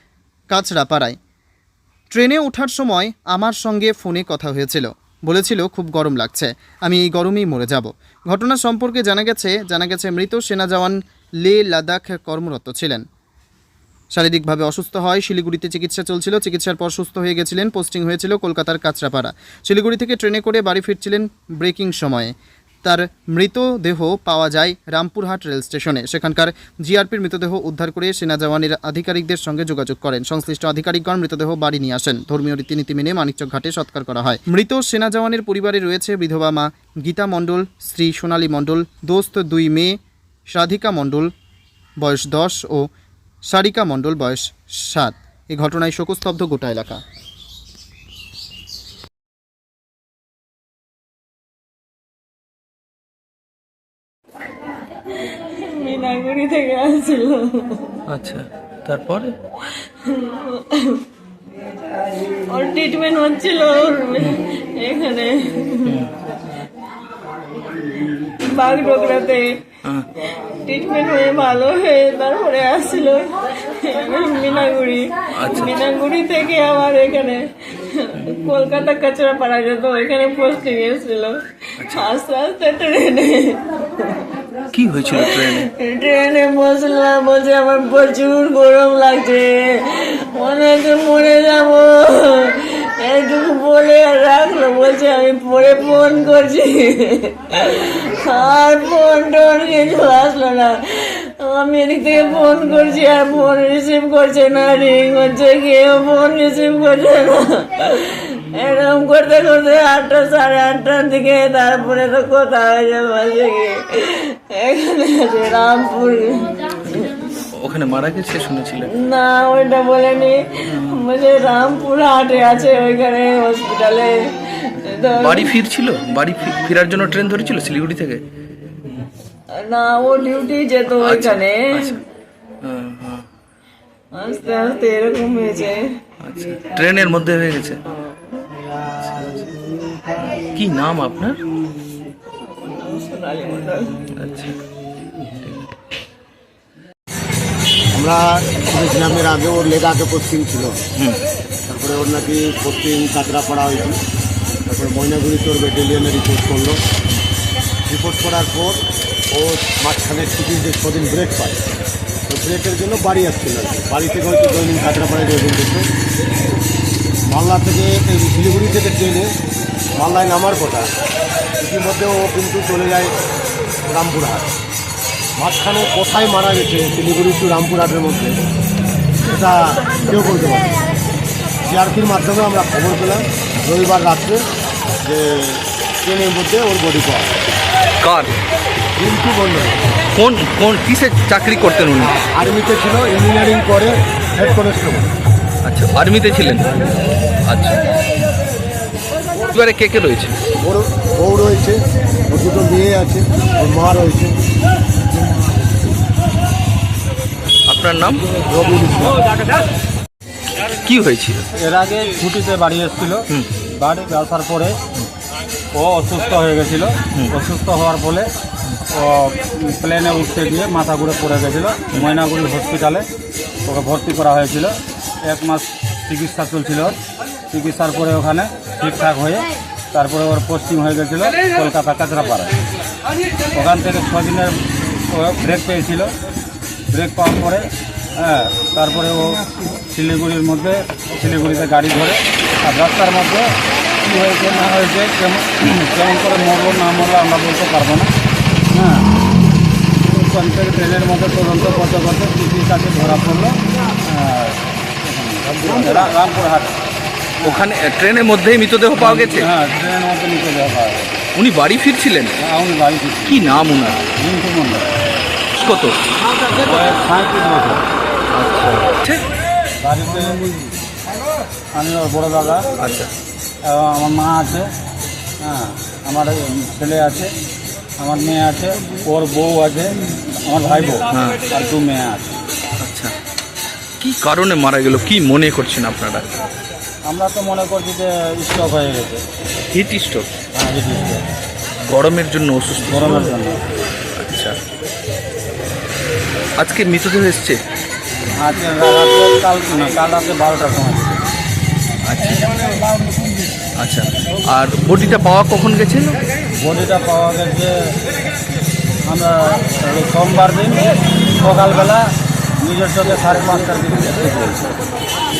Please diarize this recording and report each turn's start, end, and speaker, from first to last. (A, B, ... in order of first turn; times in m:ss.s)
0:00.5-0:01.2 A
0:02.1-0:13.0 A
0:14.1-0:40.0 A
0:40.5-0:41.3 A
0:42.0-0:42.9 A
0:43.5-0:47.0 A
0:55.3-0:58.0 B
0:58.1-0:59.4 C
0:59.9-1:01.0 B
1:02.5-1:06.0 B
1:05.8-1:06.1 C
1:08.4-1:09.8 B
1:10.6-1:24.4 B
1:15.3-1:15.7 C
1:21.8-1:22.1 C
1:24.7-1:25.7 C
1:25.1-1:57.1 B
1:57.6-1:58.9 C
1:58.9-2:05.5 B
2:00.7-2:01.0 C
2:05.2-2:08.2 C
2:09.5-2:12.0 B
2:10.9-2:12.0 C
2:12.6-2:13.2 C
2:14.1-2:15.9 B
2:16.2-2:17.8 C
2:19.0-2:19.5 C
2:20.2-2:21.4 C
2:22.4-2:24.0 B
2:24.1-2:24.6 C
2:25.3-2:25.7 C
2:27.9-2:30.8 D
2:31.7-2:34.0 D
2:34.7-2:36.8 D
2:37.9-2:38.8 D
2:39.3-2:41.6 D
2:42.3-2:45.9 D
2:47.2-2:49.3 D
2:49.9-2:50.9 D
2:51.6-2:53.1 D
2:53.9-2:54.5 D
2:55.4-2:58.4 D
2:59.2-3:00.7 D
3:01.6-3:04.4 D
3:05.0-3:07.4 D
3:08.0-3:08.4 C
3:09.0-3:09.8 D
3:10.1-3:12.1 C
3:12.0-3:15.1 D
3:15.6-3:16.7 C
3:17.4-3:17.8 C
3:19.5-3:20.4 C
3:20.6-3:24.4 D
3:27.7-3:28.4 C
3:28.6-3:29.2 D
3:30.8-3:31.4 C
3:31.6-3:34.8 E
3:35.7-3:38.3 E
3:38.8-3:43.1 E
3:43.6-3:47.0 E
3:47.5-3:52.5 E
3:53.5-3:56.1 E
3:56.9-4:03.5 E
4:04.0-4:08.1 E
4:08.7-4:09.1 E
4:10.0-4:16.8 E
4:17.4-4:19.5 C
4:19.0-4:21.2 E
4:21.3-4:22.4 C
4:22.4-4:23.4 E
4:23.2-4:24.1 C
4:24.2-4:24.9 E
4:25.5-4:26.0 C
4:26.6-4:27.8 E
4:28.3-4:29.2 C
4:29.8-4:30.5 E
4:31.7-4:32.6 E
4:32.8-4:33.1 C
4:33.6-4:34.7 E
4:35.4-4:37.3 E
4:38.0-4:42.4 E
4:41.1-4:41.4 C
4:42.8-4:43.1 C
4:44.0-4:46.3 C
4:47.0-4:49.2 E
4:49.7-4:50.3 C
4:50.5-4:51.2 E
4:51.8-4:53.3 C
4:52.8-4:53.6 E
4:54.1-4:54.6 C
4:56.6-4:57.6 C
4:58.3-5:01.3 E
5:02.0-5:02.7 C
5:03.8-5:06.2 C
5:06.6-5:07.9 E
5:09.1-5:14.7 E